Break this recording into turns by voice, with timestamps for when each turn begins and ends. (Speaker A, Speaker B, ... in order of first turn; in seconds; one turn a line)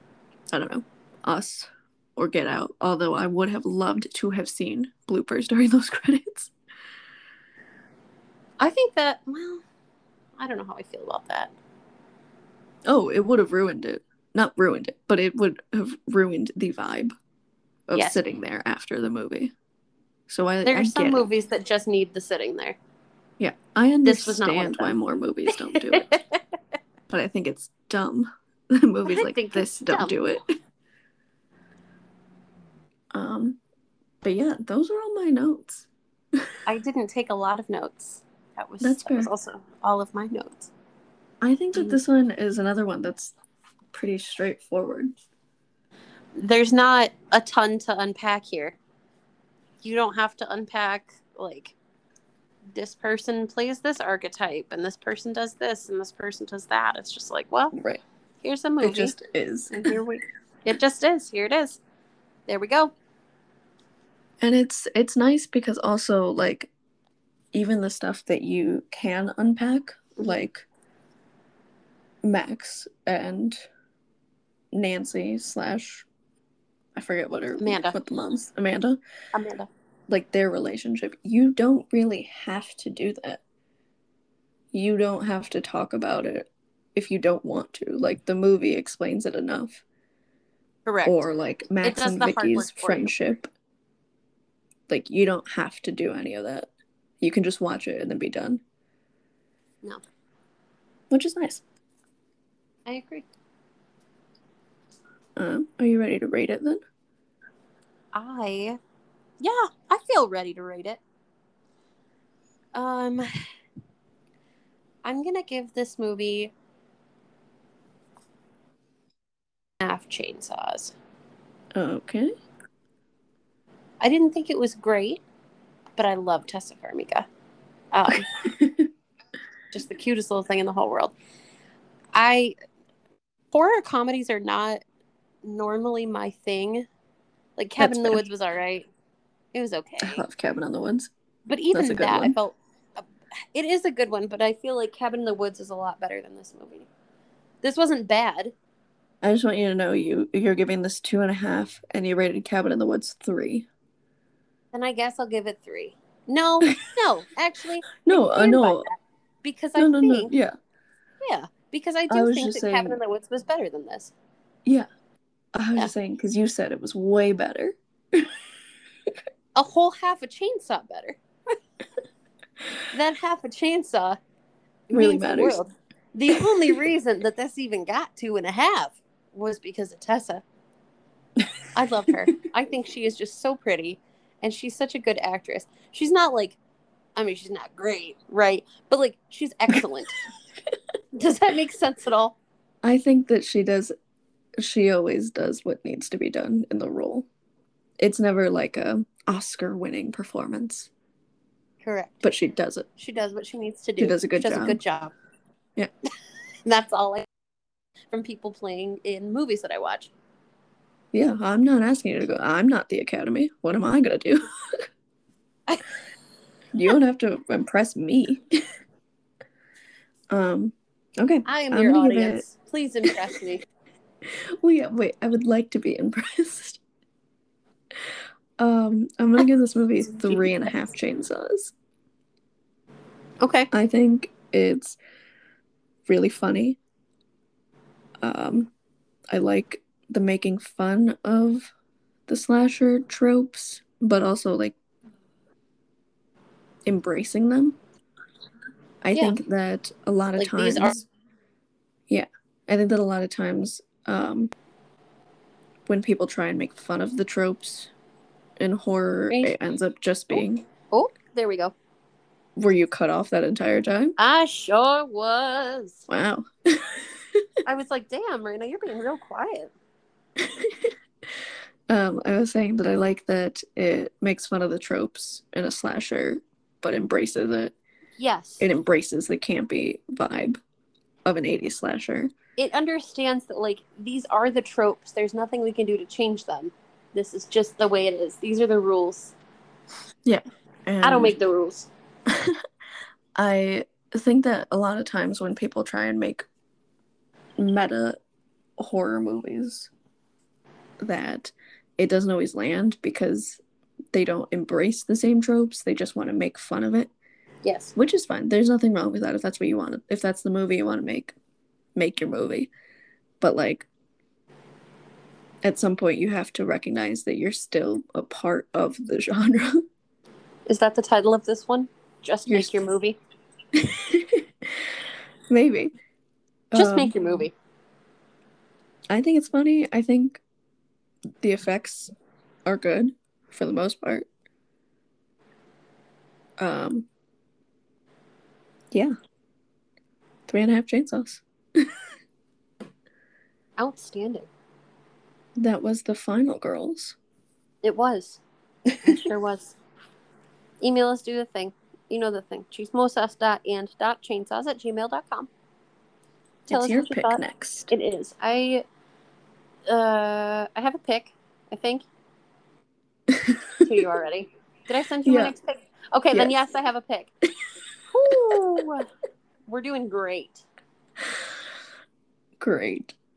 Speaker A: 0.5-6.5
Speaker B: 8.6-9.6
Speaker B: 10.4-11.5
Speaker A: 12.9-17.1
Speaker A: 17.9-19.5
Speaker A: 20.3-21.3
Speaker B: 20.6-22.8
Speaker A: 23.4-26.1
Speaker B: 24.1-24.9
Speaker B: 25.6-26.4
Speaker A: 27.1-30.4
Speaker B: 29.1-30.2
Speaker A: 33.1-33.6
Speaker A: 34.2-36.5
Speaker B: 36.6-40.7
Speaker A: 38.8-39.3
Speaker A: 41.4-43.4
Speaker A: 43.9-45.1
Speaker B: 46.4-48.8
Speaker B: 49.8-51.7
Speaker B: 52.7-57.7
Speaker A: 57.7-58.0
Speaker B: 58.4-59.1
Speaker A: 58.8-59.9
Speaker B: 59.7-61.8
Speaker B: 62.5-62.9
Speaker A: 64.4-66.7
Speaker A: 67.5-70.6
Speaker B: 70.2-70.4
Speaker A: 72.2-73.6
Speaker A: 74.7-76.1
Speaker A: 76.9-79.0
Speaker B: 77.6-78.0
Speaker B: 79.3-79.7
Speaker A: 80.1-83.4
Speaker A: 84.7-89.8
Speaker B: 90.9-91.3
Speaker A: 91.0-93.5
Speaker B: 91.8-93.1
Speaker A: 94.9-96.7
Speaker A: 97.2-98.6
Speaker A: 101.1-101.6
Speaker B: 102.9-103.3
Speaker A: 105.4-106.8
Speaker B: 108.1-108.8
Speaker B: 109.4-111.0
Speaker B: 112.7-113.3
Speaker B: 115.0-116.5
Speaker B: 119.8-120.9
Speaker A: 121.7-122.3
Speaker B: 124.0-125.2
Speaker B: 126.0-127.3
Speaker B: 127.9-128.3
Speaker A: 128.1-128.9
Speaker B: 129.7-131.1
Speaker B: 132.1-132.6
Speaker B: 133.5-134.8
Speaker B: 135.4-136.9
Speaker B: 137.6-138.9
Speaker A: 137.8-138.2
Speaker B: 139.5-140.2
Speaker A: 140.0-141.1
Speaker B: 141.5-146.9
Speaker A: 141.7-142.4
Speaker B: 147.6-148.5
Speaker A: 149.2-153.7
Speaker B: 154.7-160.3
Speaker A: 158.1-158.9
Speaker A: 159.8-160.6
Speaker B: 161.2-164.1
Speaker A: 162.1-163.0
Speaker A: 165.5-168.4
Speaker B: 169.6-171.2
Speaker B: 172.9-174.2
Speaker B: 174.9-180.4
Speaker A: 174.9-175.6
Speaker A: 176.3-176.8
Speaker B: 181.7-186.6
Speaker B: 187.2-190.2
Speaker B: 191.1-192.4
Speaker A: 192.8-193.9
Speaker A: 194.6-197.3
Speaker A: 198.0-200.9
Speaker B: 201.8-202.2
Speaker A: 202.2-202.9
Speaker B: 203.0-205.1
Speaker A: 204.0-204.8
Speaker B: 206.7-207.2
Speaker B: 208.1-210.1
Speaker A: 211.1-214.5
Speaker A: 216.7-218.5
Speaker A: 220.3-222.4
Speaker B: 221.4-223.6
Speaker A: 224.2-226.8
Speaker A: 228.6-231.7
Speaker B: 233.4-233.7
Speaker A: 233.7-235.0
Speaker A: 236.1-236.8
Speaker A: 238.2-238.7
Speaker A: 239.3-241.7
Speaker A: 242.3-244.7
Speaker A: 246.8-247.8
Speaker A: 249.0-251.1
Speaker B: 250.4-251.0
Speaker A: 252.1-254.5
Speaker A: 255.9-257.9
Speaker A: 258.6-260.6
Speaker B: 259.3-259.6
Speaker B: 260.3-261.7
Speaker A: 262.6-264.2
Speaker B: 264.2-266.1
Speaker A: 266.1-267.4
Speaker B: 267.6-269.7
Speaker A: 270.4-270.9
Speaker A: 271.9-277.7
Speaker B: 278.2-278.7
Speaker A: 278.6-280.6
Speaker A: 281.2-282.3
Speaker B: 282.6-289.4
Speaker A: 290.2-291.4
Speaker B: 291.0-291.9
Speaker A: 292.3-292.6
Speaker A: 293.4-296.4
Speaker A: 297.6-298.2
Speaker A: 298.8-299.9
Speaker A: 301.0-303.6
Speaker A: 304.1-307.1
Speaker B: 307.6-307.9
Speaker A: 307.9-311.4
Speaker A: 311.9-312.7
Speaker A: 313.4-313.9
Speaker A: 315.6-319.9
Speaker B: 320.6-323.2
Speaker A: 322.5-322.8
Speaker A: 323.7-324.9
Speaker A: 325.5-325.9
Speaker A: 326.7-327.1
Speaker B: 326.7-327.5
Speaker A: 329.1-330.4
Speaker A: 331.4-332.1
Speaker A: 332.6-334.3
Speaker A: 336.6-337.1
Speaker A: 340.5-341.9
Speaker B: 343.8-344.5
Speaker A: 345.6-347.1
Speaker B: 347.8-348.4
Speaker B: 349.0-349.7
Speaker B: 350.8-355.5
Speaker A: 356.6-357.9
Speaker B: 356.7-358.9
Speaker B: 359.9-362.1
Speaker A: 363.3-363.9
Speaker B: 363.8-367.3
Speaker A: 365.2-365.5
Speaker B: 368.1-369.1
Speaker B: 369.7-370.6
Speaker A: 372.6-373.1